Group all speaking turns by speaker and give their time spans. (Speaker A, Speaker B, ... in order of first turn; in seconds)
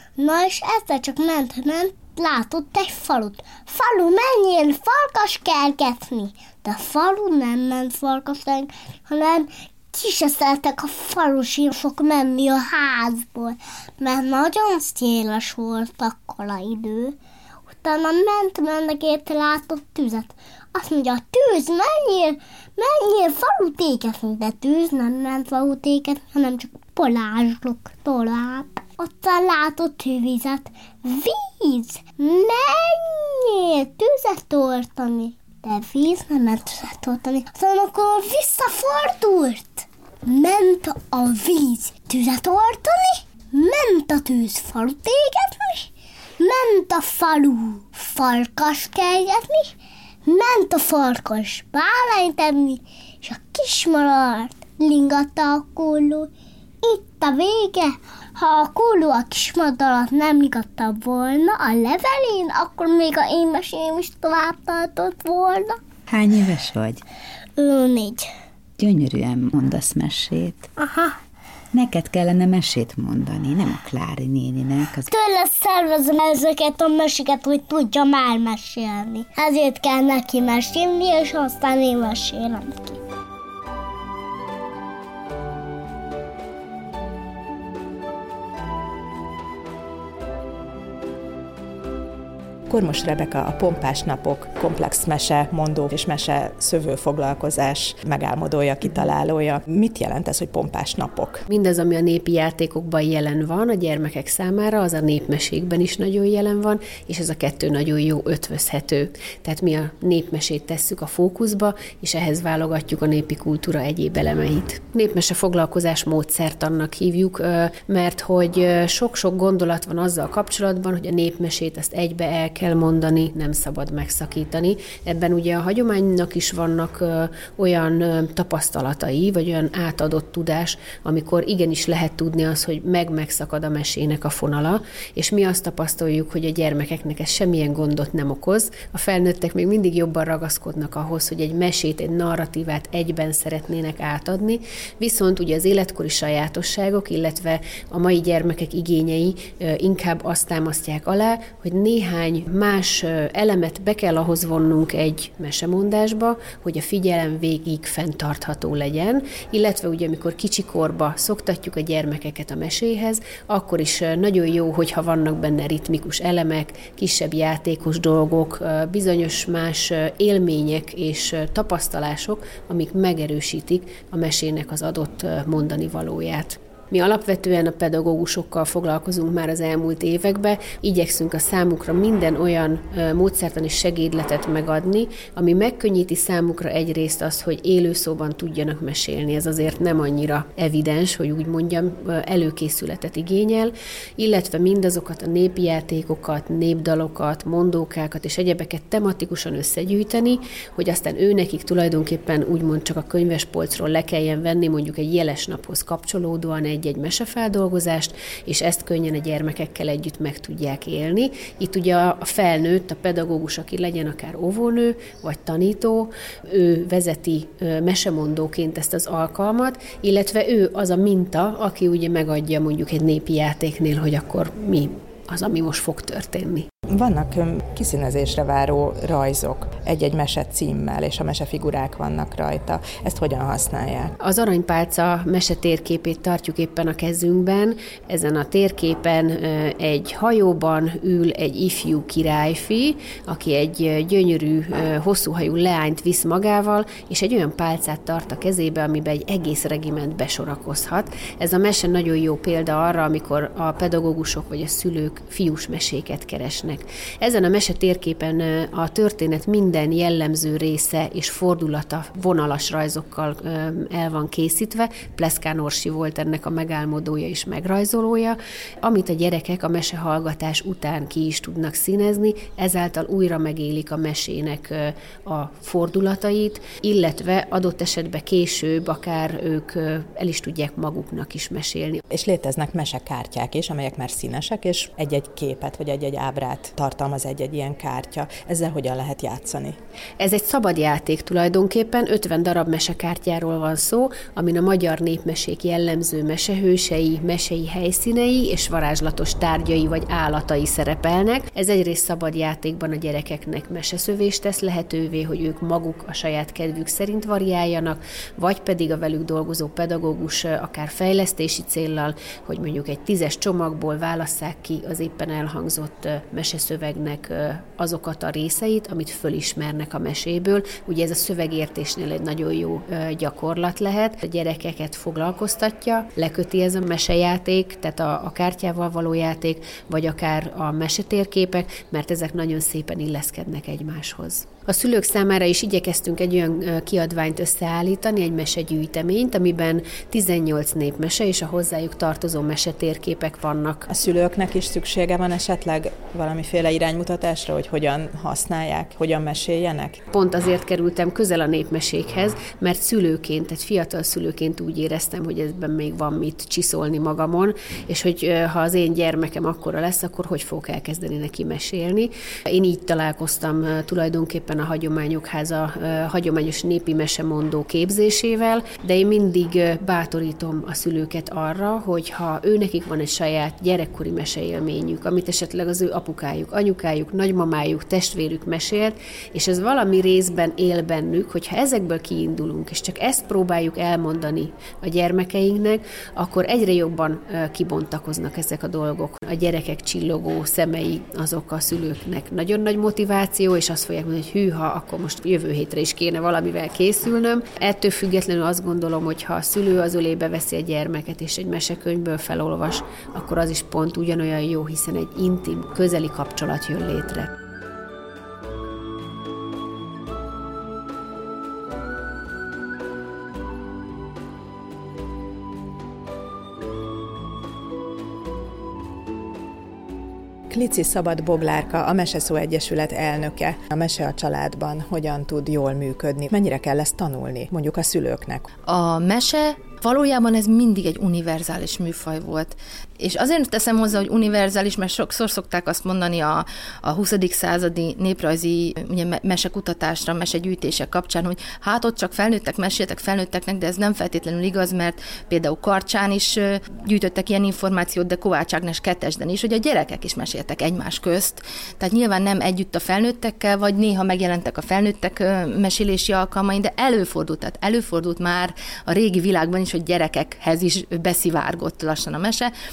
Speaker A: 0.2-17.2, 17.8-45.9, 46.4-49.7, 50.2-56.3, 56.8-65.8, 67.6-68.3, 70.8-71.2, 75.1-83.0
Speaker B: 66.1-67.0, 68.8-70.7, 71.7-75.1
Speaker C: 92.7-101.4, 226.9-234.1, 282.1-289.8, 343.9-350.0, 420.5-428.5
Speaker D: 101.5-226.7, 234.2-282.0, 290.2-343.9, 350.1-407.3
Speaker E: 428.7-462.5